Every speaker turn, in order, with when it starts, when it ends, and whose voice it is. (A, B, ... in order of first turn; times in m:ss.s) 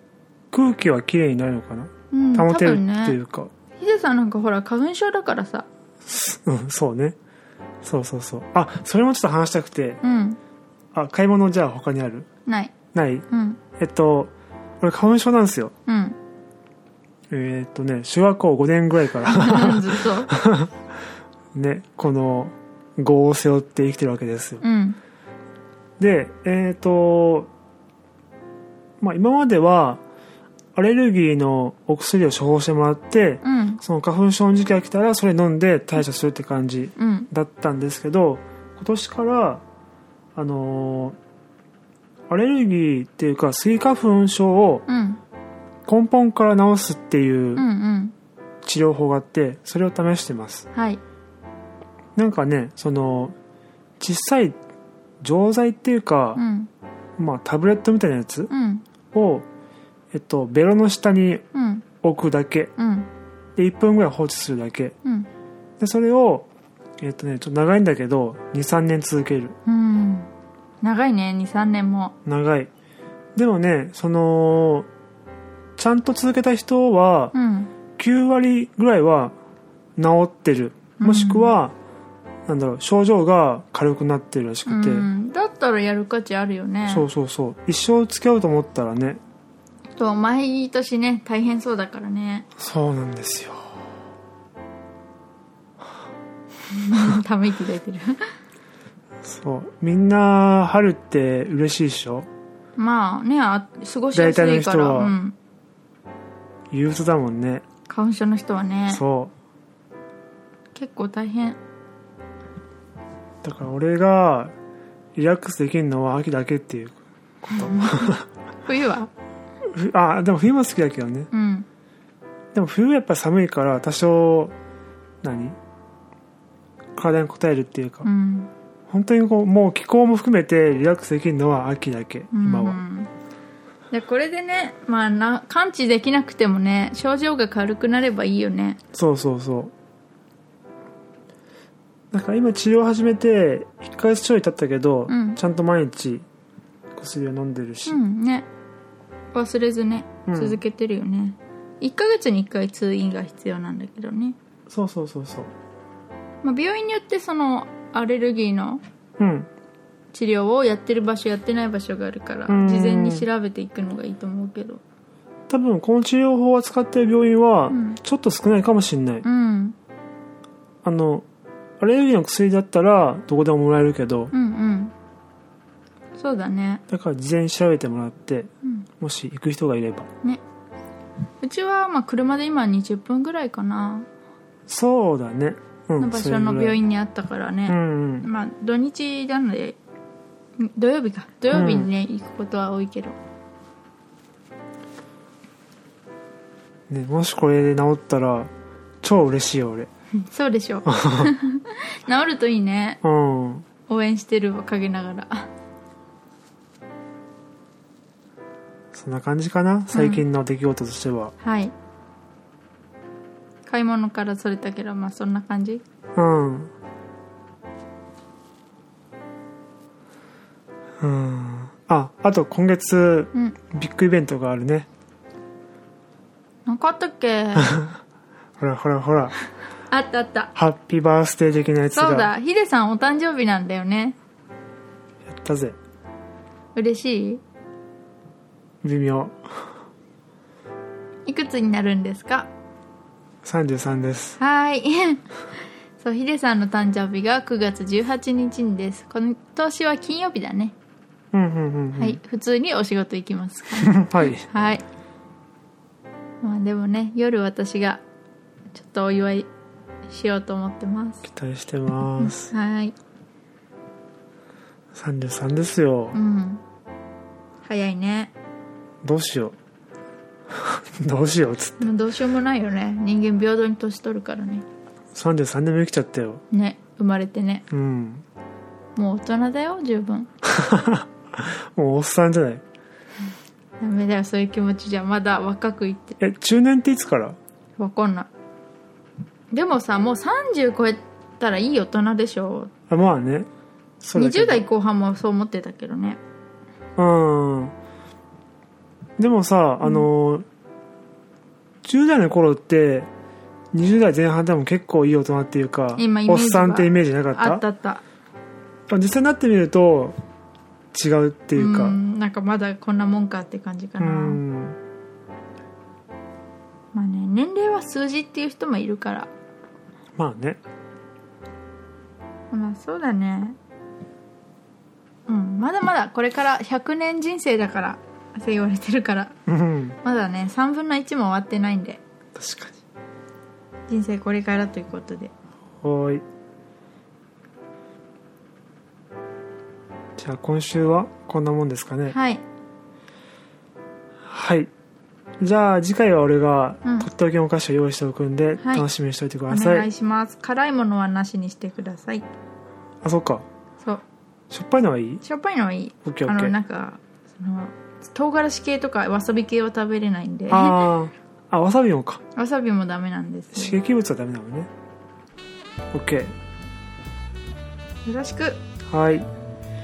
0:00.5-0:03.5 A
0:02.1-0:03.2 B
0:03.8-0:05.7 B
0:06.0-0:07.2 A
0:07.8-0:10.0 A
0:10.0-0:10.4 B
0:10.9-0:12.3 A
0:12.4-0:12.8 B
0:12.9-0:13.3 A
0:13.3-0:13.6 B
0:13.8-0:15.7 A
0:15.8-0:16.2 B
0:17.3-0:20.8 A
0:19.2-0:20.3 B
0:21.5-0:24.6 A
0:24.6-0:25.0 B
0:26.0-0:27.5 A
0:29.0-0:30.0 A
0:30.7-0:39.6 A
0:33.4-0:33.8 B
0:37.0-0:37.3 B
0:40.3-0:41.2 A
0:42.3-0:44.8 A
0:44.9-0:45.2 B
0:45.8-0:47.6 A
0:47.6-0:48.1 B
0:48.6-0:50.7 A
0:50.7-0:51.0 B
0:52.2-0:53.3 A
0:54.0-0:54.6 A
0:55.2-0:56.4 A
0:56.4-0:56.7 B
0:57.2-0:58.5 A
0:58.5-0:58.8 B
0:59.1-0:59.4 A
1:00.1-1:01.4 A
1:01.5-1:01.9 B
1:02.0-1:02.7 A
1:02.8-1:03.1 B
1:03.6-1:04.9 A
1:05.0-1:05.3 B
1:05.8-1:06.5 A
1:07.0-1:09.6 A
1:09.6-1:10.3 B
1:10.8-1:12.1 B
1:12.2-1:12.7 A
1:13.4-1:14.9 A
1:15.8-1:17.3 A
1:17.3-1:17.7 B
1:18.0-1:19.3 A
1:20.0-1:21.7 A
1:21.0-1:21.6 B
1:22.5-1:25.1 A
1:24.7-1:27.0 B
1:26.9-1:29.2 A
1:30.0-1:32.5 B
1:32.6-1:33.8 A
1:36.7-1:38.3 B
1:39.2-1:42.3 A
1:42.8-1:45.4 B
1:44.1-1:45.1 A
1:46.7-1:47.6 A
1:47.9-1:49.0 B
1:48.9-1:49.3 A
1:50.7-1:51.6 B
1:53.4-1:54.5 A
1:55.2-1:58.2 A
1:57.5-1:59.1 B
1:59.6-2:01.3 A
2:01.3-2:01.7 B
2:02.5-2:04.5 A
2:05.2-2:05.6 A
2:07.0-2:08.1 A
2:08.0-2:08.5 B
2:08.9-2:12.8 A
2:12.3-2:13.1 B
2:13.9-2:18.8 B
2:18.9-2:19.7 A
2:22.1-2:26.2 A
2:25.1-2:25.4 B
2:26.9-2:28.0 A
2:27.8-2:28.5 B
2:29.3-2:34.4 B
2:30.3-2:30.6 A
2:34.7-2:35.5 A
2:36.4-2:38.8 B
2:39.2-2:39.5 A
2:40.1-2:44.8 B
2:42.5-2:43.2 A
2:45.5-2:49.2 A
2:47.7-2:48.0 B
2:49.2-2:49.8 B
2:50.8-2:51.2 A
2:51.8-2:54.3 A
2:54.3-2:54.9 B
2:56.2-2:56.8 B
2:56.9-3:00.1 A
3:01.4-3:04.1 B
3:04.7-3:06.8 A
3:06.0-3:09.8 B
3:07.7-3:08.3 A
3:10.6-3:13.2 B
3:11.5-3:11.9 A
3:16.9-3:18.5 A
3:19.0-3:19.9 A
3:20.2-3:23.0 B
3:20.8-3:21.3 A
3:23.0-3:23.6 A
3:23.9-3:25.5 B
3:28.9-3:31.3 A
3:29.9-3:30.2 B
3:31.4-3:31.7 B
3:33.6-3:35.8 B
3:36.2-3:36.7 A
3:41.0-3:44.9 A
3:46.7-3:47.8 B
3:47.6-3:48.0 A
3:48.6-3:49.3 A
3:49.9-3:50.5 B
3:50.6-3:52.3 A
3:51.9-3:54.2 B
3:55.2-3:55.8 A
3:56.7-3:57.4 B
3:58.8-3:59.7 A
4:01.2-4:02.5 B
4:03.4-4:04.4 A
4:04.4-4:05.3 B
4:06.0-4:10.7 B
4:11.3-4:12.2 A
4:12.0-4:14.8 B
4:13.8-4:14.4 A
4:16.4-4:18.0 B
4:18.7-4:19.5 B
4:20.1-4:21.2 B
4:21.2-4:22.5 A
4:22.2-4:22.9 B
4:24.9-4:26.2 A
4:26.1-4:26.6 B
4:27.6-4:28.3 B
4:29.0-4:29.5 A
4:30.5-4:31.9 A
4:31.8-4:34.6 B
4:35.1-4:36.4 A
4:36.5-4:37.6 B
4:37.7-4:38.2 A
4:39.0-4:40.3 B
4:40.4-4:42.6 A
4:43.8-4:46.2 B
4:46.2-4:47.4 A
4:47.8-4:48.3 B
4:49.5-4:52.7 B
4:52.9-4:53.5 A
4:54.0-4:54.6 A
4:54.1-4:56.2 B
4:57.0-4:57.7 A
4:59.2-5:00.4 A
5:01.8-5:03.1 A
5:03.7-5:07.6 A
5:06.0-5:08.0 B
5:08.9-5:10.1 A
5:10.9-5:12.0 A
5:11.6-5:14.4 B
5:14.0-5:14.8 A
5:16.9-5:19.3 B
5:20.2-5:20.6 A
5:22.5-5:23.6 B
5:25.3-5:29.3 B
5:29.5-5:30.0 A
5:30.0-5:32.0 B
5:32.3-5:32.8 A
5:33.9-5:35.3 B
5:35.8-5:36.2 A
5:40.2-5:42.2 A
5:42.1-5:42.4 B
5:44.2-5:44.7 A
5:45.4-5:49.9 A
5:48.6-5:48.8 B
5:49.5-5:52.2 B
5:53.0-5:53.4 A
5:54.5-5:55.2 A
5:55.2-6:00.8 B
5:56.0-5:56.5 A
6:00.5-6:02.2 A
6:02.3-6:03.8 B
6:03.5-6:04.7 A
6:05.9-6:06.3 A
6:08.0-6:08.6 B
6:08.9-6:09.3 A